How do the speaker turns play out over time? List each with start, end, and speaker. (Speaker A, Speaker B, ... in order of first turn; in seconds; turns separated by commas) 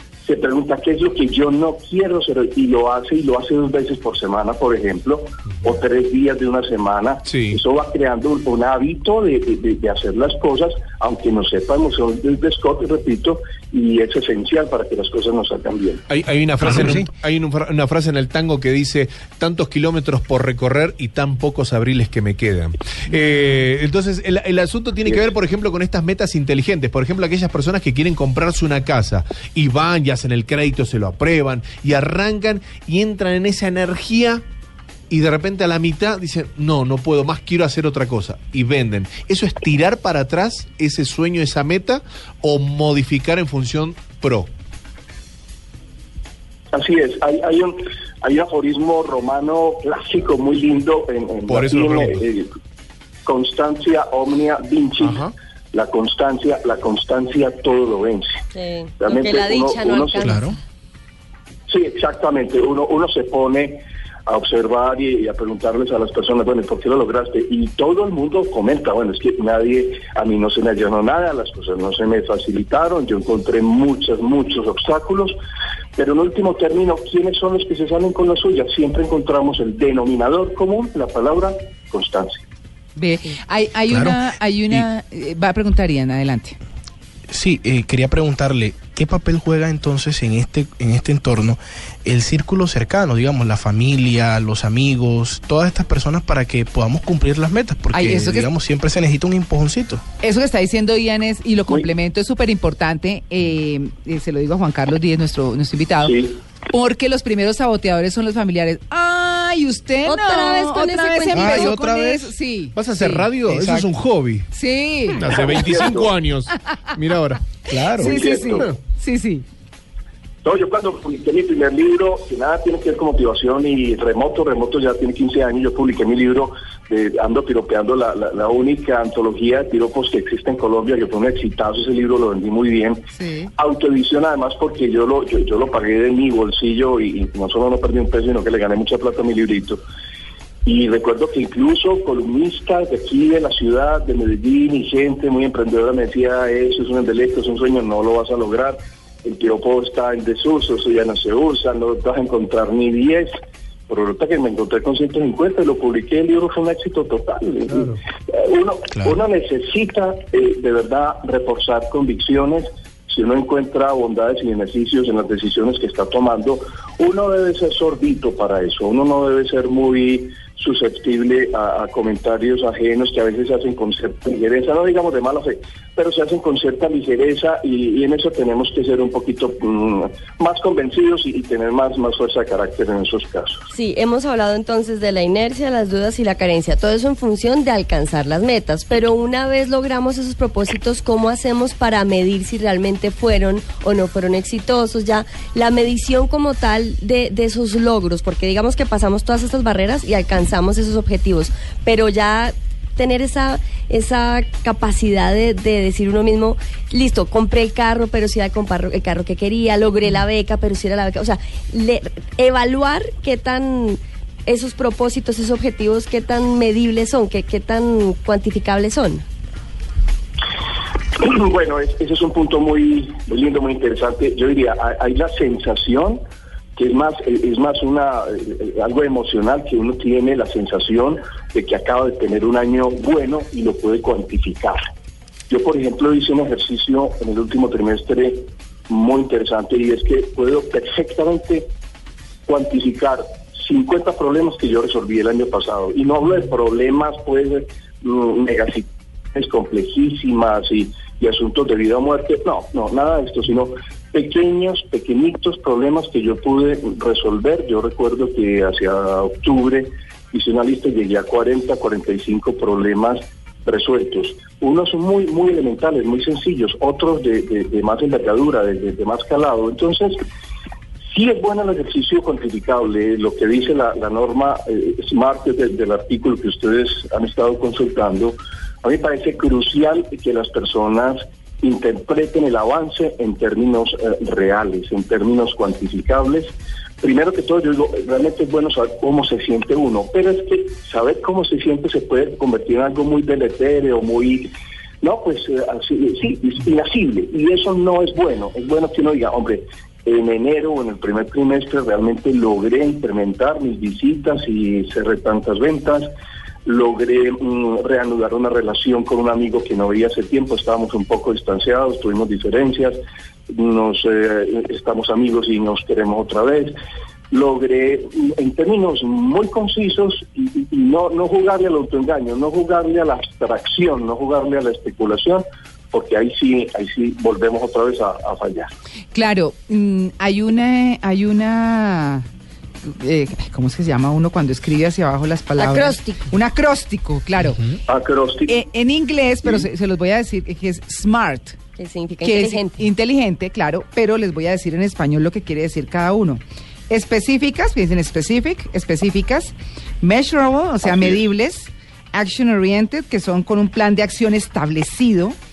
Speaker A: 0.2-16.0, Speaker B: 7.3-7.6, Speaker B: 16.1-34.4, Speaker B: 35.1-44.5, Speaker A: 46.7-52.5, Speaker B: 51.5-52.2, Speaker A: 53.3-58.4, Speaker B: 55.0-55.3, Speaker C: 58.5-60.6, Speaker A: 59.0-60.3, Speaker D: 60.2-60.5, Speaker A: 61.7-75.4, Speaker A: 76.0-82.4, Speaker E: 83.0-86.6, Speaker D: 83.9-84.2, Speaker D: 87.3-100.0, Speaker E: 97.9-98.5, Speaker E: 100.2-106.1, Speaker A: 106.0-106.4, Speaker E: 106.7-113.3, Speaker C: 110.0-111.7, Speaker D: 111.3-112.3, Speaker B: 112.8-114.5, Speaker D: 113.5-113.9, Speaker E: 114.5-115.2, Speaker B: 115.2-117.5, Speaker A: 115.2-116.1, Speaker D: 117.7-118.2, Speaker E: 117.9-119.5, Speaker A: 118.0-118.7, Speaker B: 118.5-118.8, Speaker A: 120.4-133.1, Speaker E: 133.1-133.5, Speaker A: 133.6-139.8, Speaker A: 140.7-153.3, Speaker A: 153.9-183.7, Speaker C: 183.7-219.2, Speaker A: 221.2-226.2, Speaker A: 226.8-234.8, Speaker A: 235.5-241.7, Speaker A: 242.5-270.2, Speaker A: 271.1-294.5, Speaker A: 295.0-306.1, Speaker A: 306.6-313.0, Speaker A: 313.5-316.7, Speaker A: 317.3-328.7, Speaker E: 329.1-332.3, Speaker E: 332.8-337.8, Speaker C: 335.6-336.3, Speaker A: 337.9-338.6, Speaker E: 338.5-341.6, Speaker C: 341.8-342.8, Speaker E: 342.2-355.4